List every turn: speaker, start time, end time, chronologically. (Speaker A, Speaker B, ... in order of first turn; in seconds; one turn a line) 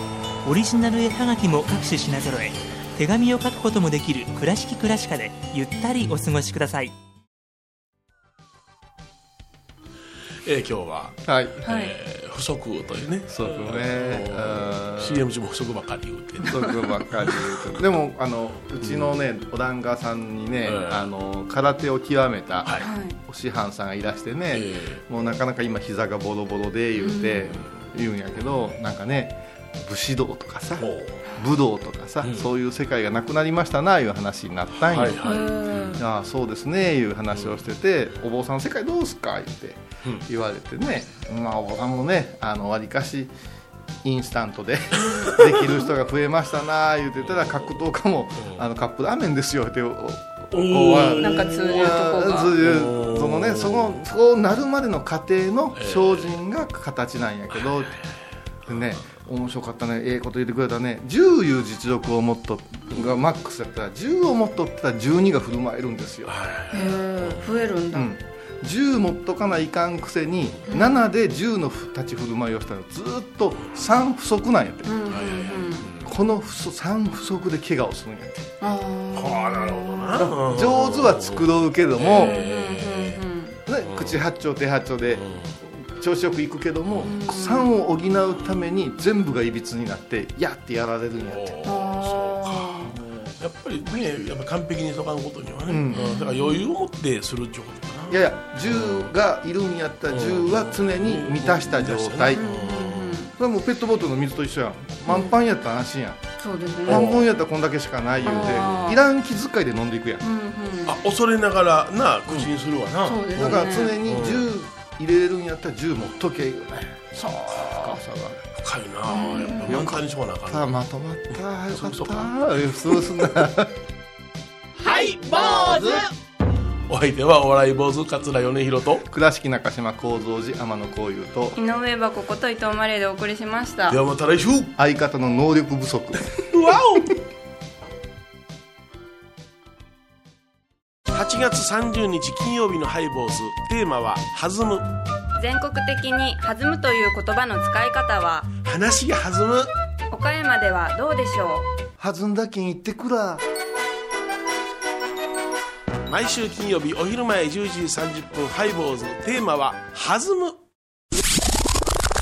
Speaker A: 0.4-6.9
Speaker B: 10.4-17.7
Speaker C: 11.2-11.6
Speaker D: 11.6-11.9
Speaker C: 13.3-15.2
Speaker C: 16.4-43.3
Speaker B: 18.8-19.1
Speaker B: 20.6-21.1
Speaker B: 22.6-22.9
Speaker D: 22.8-23.2
Speaker B: 24.5-25.0
Speaker D: 27.0-27.5
Speaker B: 30.8-31.2
Speaker B: 32.2-32.5
Speaker B: 34.8-36.0
Speaker D: 35.2-35.9
Speaker C: 44.0-57.9
Speaker B: 45.0-45.8
Speaker B: 50.5-54.0
Speaker D: 51.2-52.5
Speaker B: 55.8-56.4
Speaker B: 57.5-58.1
Speaker C: 58.6-66.3
Speaker B: 66.3-67.5
Speaker D: 66.7-68.1
Speaker C: 67.9-75.2
Speaker D: 70.7-71.0
Speaker D: 74.8-75.9
Speaker B: 75.0-76.1
Speaker C: 76.0-78.5
Speaker D: 78.6-80.2
Speaker B: 79.1-83.2
Speaker C: 80.1-82.4
Speaker D: 82.1-83.6
Speaker C: 83.7-91.5
Speaker B: 83.8-84.2
Speaker B: 85.1-85.5
Speaker D: 87.0-87.7
Speaker B: 91.2-99.1
Speaker D: 91.7-92.9
Speaker C: 92.9-93.2
Speaker C: 95.7-96.2
Speaker D: 95.9-96.6
Speaker C: 98.1-102.4
Speaker B: 100.1-103.3
Speaker D: 102.3-103.3
Speaker C: 103.4-106.2
Speaker D: 106.4-107.0
Speaker B: 106.8-107.2
Speaker C: 106.9-110.2
Speaker D: 108.2-109.0
Speaker B: 108.2-109.0
Speaker D: 110.2-111.0
Speaker B: 110.8-114.4
Speaker D: 113.0-114.0
Speaker C: 113.3-118.4
Speaker B: 118.5-120.7
Speaker D: 119.1-119.7
Speaker C: 119.6-123.8
Speaker B: 121.7-123.1
Speaker B: 124.8-126.1
Speaker C: 125.3-126.0
Speaker B: 126.9-129.1
Speaker C: 129.1-131.6
Speaker E: 131.6-134.0
Speaker B: 133.9-134.7
Speaker C: 134.8-136.3
Speaker B: 136.4-137.2
Speaker B: 141.1-144.9
Speaker E: 145.4-148.5
Speaker B: 148.6-149.7
Speaker E: 150.1-151.7
Speaker C: 152.0-153.4
Speaker B: 156.1-160.6